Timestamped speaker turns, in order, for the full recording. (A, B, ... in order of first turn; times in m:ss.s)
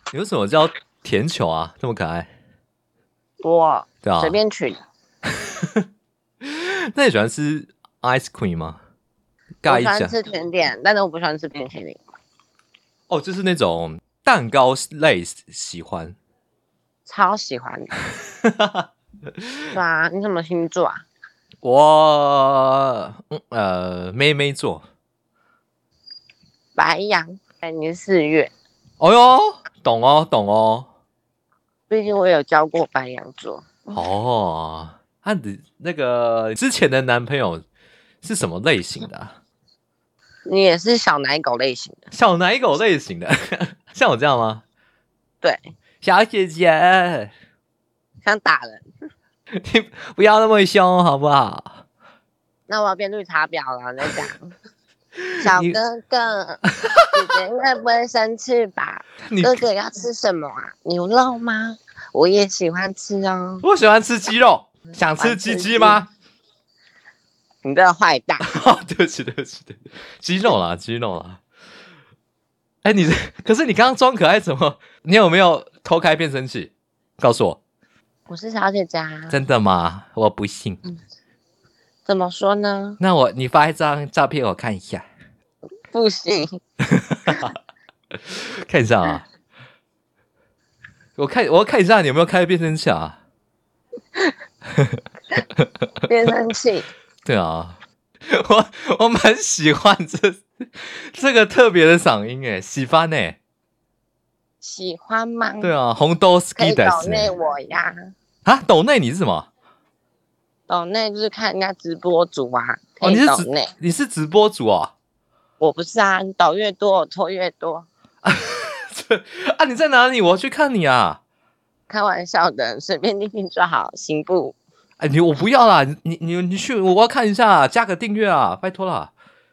0:00.1-0:02.3 A
0:03.4-0:04.8 B
0:04.0-0:04.4 A
0:05.4-0:05.8 A
0:06.4-0:08.8 A
0:09.6-0:10.2 A
0:09.7-0:12.0 B
0:13.1-0:16.2 A
0:17.1-0:17.9 B
0:18.4-0:18.9 A
0:19.7-0:21.0 B
0:21.6-0:24.8 A
0:26.8-0:28.5 B
0:29.0-0:30.9 A
0:31.9-0:34.0 B
0:33.9-0:37.6 A
0:38.2-0:39.4 A
0:40.5-0:42.0 B
0:42.1-0:44.6 A
0:46.0-0:47.3 A
0:48.2-0:48.8 B
0:49.6-0:51.8 A
0:52.7-0:54.5 B
0:55.2-0:55.8 A
0:55.4-1:03.6 B
0:59.3-0:59.6 A
1:03.6-1:06.1 A
1:05.2-1:06.0 B
1:07.6-1:08.4 B
1:08.4-1:11.4 A
1:12.8-1:17.6 A
1:18.3-1:19.4 B
1:19.3-1:20.8 A
1:22.1-1:23.0 B
1:23.0-1:25.0 A
1:25.9-1:26.6 B
1:27.0-1:27.5 A
1:28.2-1:29.3 A
1:31.2-1:33.2 A
1:36.0-1:36.9 B
1:37.2-1:43.4 A
1:44.6-1:45.7 B
1:45.6-1:47.3 A
1:46.6-1:48.1 B
1:48.4-1:49.5 A
1:50.7-1:53.7 B
1:53.0-1:54.9 A
1:55.6-1:57.9 B
1:58.2-2:01.2 A
2:01.9-2:04.6 B
2:05.0-2:09.1 A